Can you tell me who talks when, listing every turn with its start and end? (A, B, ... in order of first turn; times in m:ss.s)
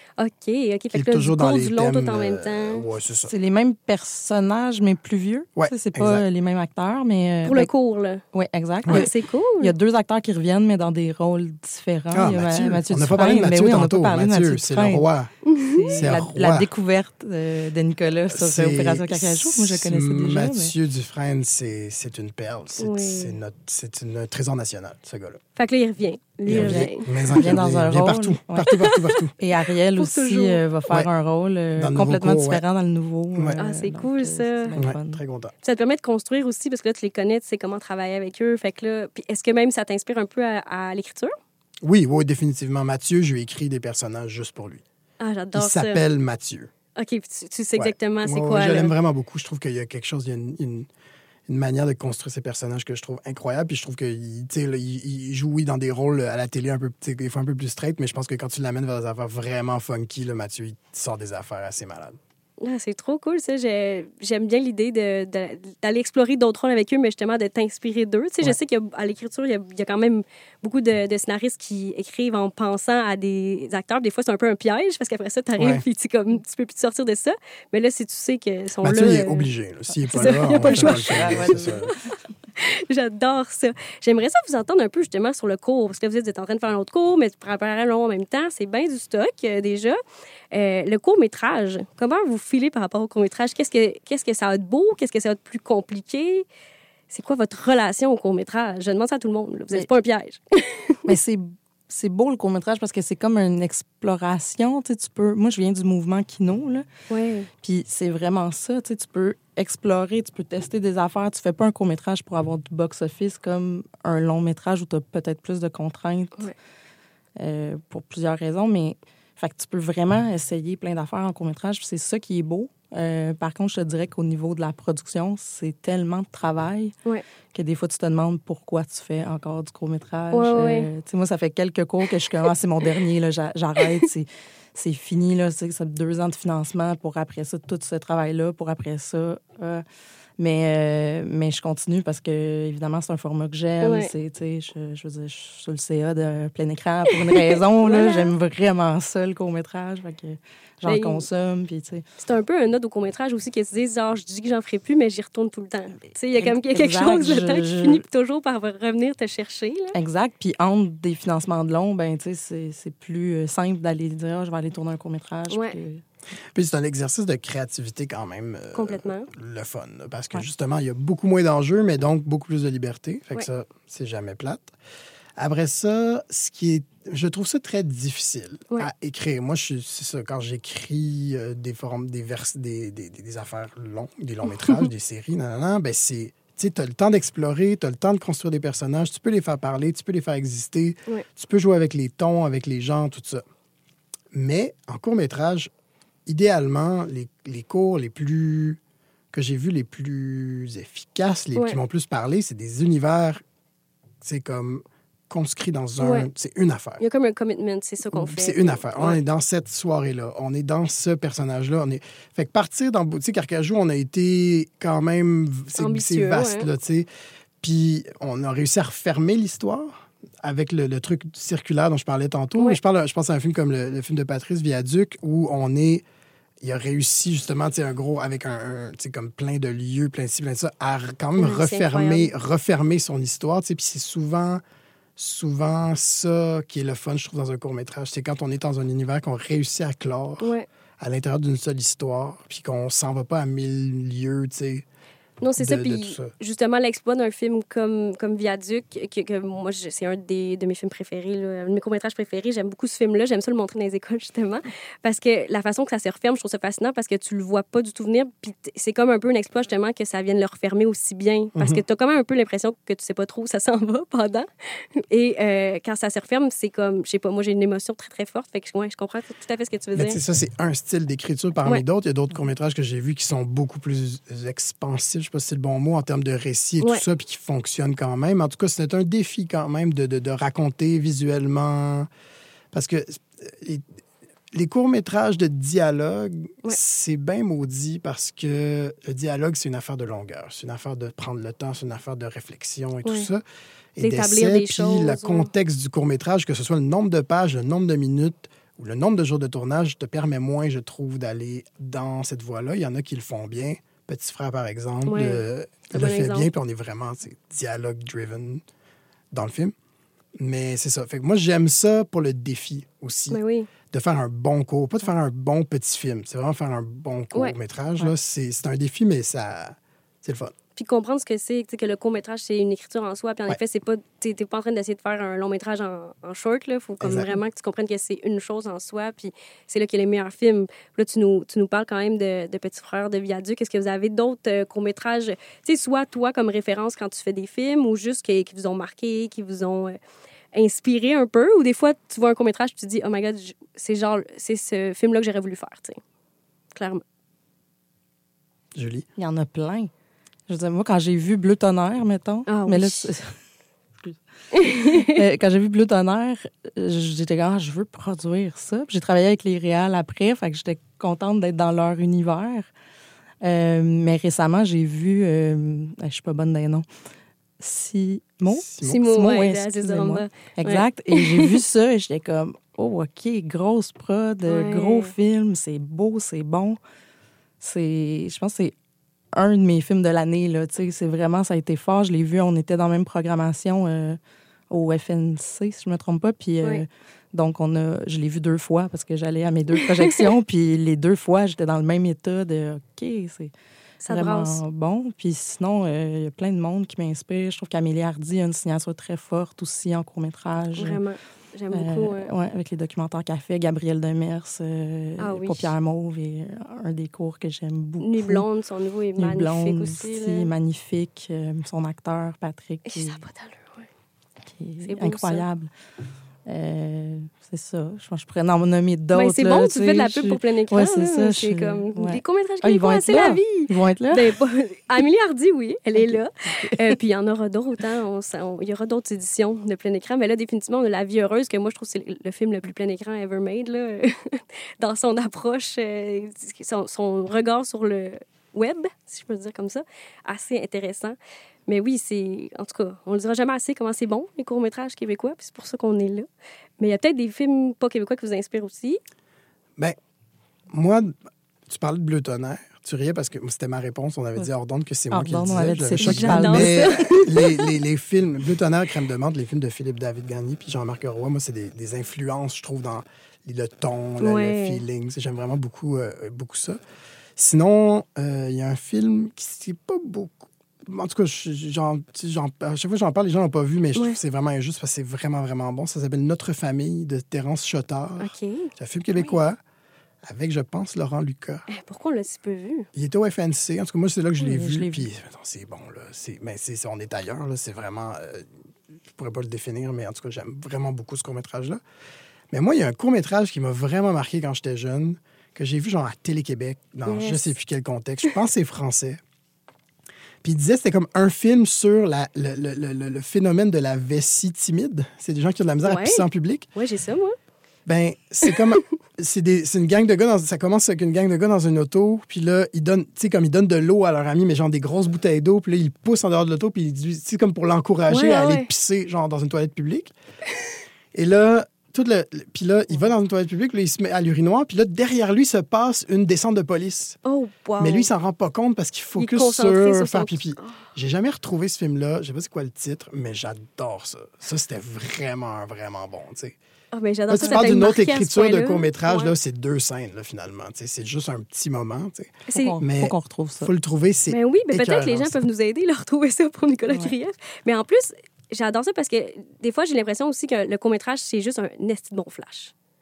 0:00.2-0:02.8 A
0:00.9-0:03.3 B
0:03.3-0:07.7 C
0:05.6-0:06.2 B
0:07.4-0:08.2 A
0:08.3-0:15.0 C
0:08.9-0:09.7 A
0:12.1-0:15.3 B
0:15.4-0:16.1 A
0:15.8-0:20.7 C
0:16.0-0:16.7 B
0:18.3-0:25.4 B
0:22.8-0:23.4 A
0:25.6-0:27.4 A
0:26.5-0:29.3 B
0:26.5-0:28.8 C
0:28.7-0:29.2 A
0:29.4-0:35.2 C
0:30.0-0:30.6 A
0:31.8-0:32.6 B
0:33.4-0:33.6 B
0:33.6-0:34.8 A
0:34.8-0:35.5 B
0:35.6-0:41.3 A
0:41.8-0:44.8 B
0:45.2-0:46.0 A
0:45.6-0:46.7 B
0:47.0-0:48.9 A
0:47.8-0:50.9 B
0:51.5-1:02.2 B
1:02.6-1:19.5 A
1:15.6-1:15.8 B
1:18.8-1:21.9 B
1:20.0-1:21.9 C
1:20.1-1:22.0 A
1:22.6-1:30.0 A
1:30.5-1:36.5 A
1:37.1-1:41.1 A
1:41.1-1:46.9 C
1:47.1-1:47.5 A
1:47.6-1:56.5 C
1:57.4-2:07.0 C
2:07.5-2:19.8 C
2:10.3-2:10.9 A
2:20.4-2:32.0 C
2:23.8-2:24.1 A
2:27.1-2:28.3 A
2:30.9-2:31.2 A
2:32.2-2:40.0 A
2:36.4-2:38.0 C
2:40.0-2:46.0 C
2:45.5-2:45.8 A
2:46.6-2:54.7 B
2:48.7-2:49.3 A
2:55.4-3:13.4 B
3:14.3-3:15.7 B
3:16.3-3:18.8 B
3:19.3-3:23.4 B
3:24.2-3:27.0 B
3:26.0-3:26.3 A
3:27.0-3:29.2 A
3:28.1-3:37.1 B
3:35.8-3:36.7 A
3:37.6-3:46.0 B
3:46.6-3:54.6 B
3:51.4-3:52.3 A
3:55.2-4:04.9 B
4:00.4-4:00.7 A
4:05.4-4:30.2 A
4:05.6-4:06.3 B
4:21.6-4:21.8 B
4:30.0-4:42.1 B
4:42.7-4:43.8 B
4:44.5-4:53.4 B
4:54.0-5:08.6 B
4:54.0-4:55.5 A
5:05.1-5:06.5 A
5:09.3-5:09.7 B
5:10.4-5:13.4 B
5:13.3-5:13.7 A
5:13.9-5:20.5 B
5:20.8-5:40.0 A
5:27.0-5:27.3 B
5:40.5-5:46.0 A
5:46.7-5:47.0 A
5:48.8-5:49.1 B
5:49.2-5:49.9 C
5:50.5-5:53.4 C
5:52.5-5:53.1 A
5:54.0-6:02.7 C
5:54.5-5:55.2 A
6:03.4-6:06.8 C
6:07.6-6:16.8 C
6:08.5-6:09.0 B
6:08.8-6:11.6 A
6:14.5-6:15.1 A
6:17.6-6:18.7 C
6:19.4-6:24.2 C
6:24.7-6:33.5 C
6:29.8-6:30.3 A
6:34.0-6:34.6 A
6:34.1-6:41.0 C
6:40.8-6:42.3 A
6:41.7-6:48.5 C
6:45.2-6:45.7 A
6:48.0-6:50.5 A
6:49.2-6:53.2 C
6:52.9-6:53.9 A
6:54.5-6:55.7 C
6:54.8-6:55.4 A
6:56.5-7:04.4 C
6:59.1-7:26.3 A
7:06.0-7:07.0 C
7:26.8-7:29.0 A
7:30.7-7:31.1 B
7:31.7-7:46.8 B
7:35.1-7:36.9 C
7:36.0-7:37.7 A
7:44.2-7:44.8 A
7:47.4-7:59.6 B
7:58.2-7:59.4 A
8:00.3-8:01.7 B
8:01.7-8:02.9 A
8:02.9-8:08.5 B
8:04.4-8:05.1 C
8:09.1-8:11.8 B
8:12.5-8:19.2 B
8:17.1-8:17.5 A
8:20.4-8:26.7 B
8:25.8-8:27.4 A
8:27.9-8:40.1 B
8:38.1-8:38.7 A
8:41.1-8:47.2 B
8:47.2-8:48.1 A
8:47.8-8:56.6 B
8:49.2-8:50.8 A
8:56.9-8:59.3 A
8:57.3-9:05.4 B
9:02.5-9:02.8 A
9:02.5-9:03.7 C
9:04.3-9:12.7 A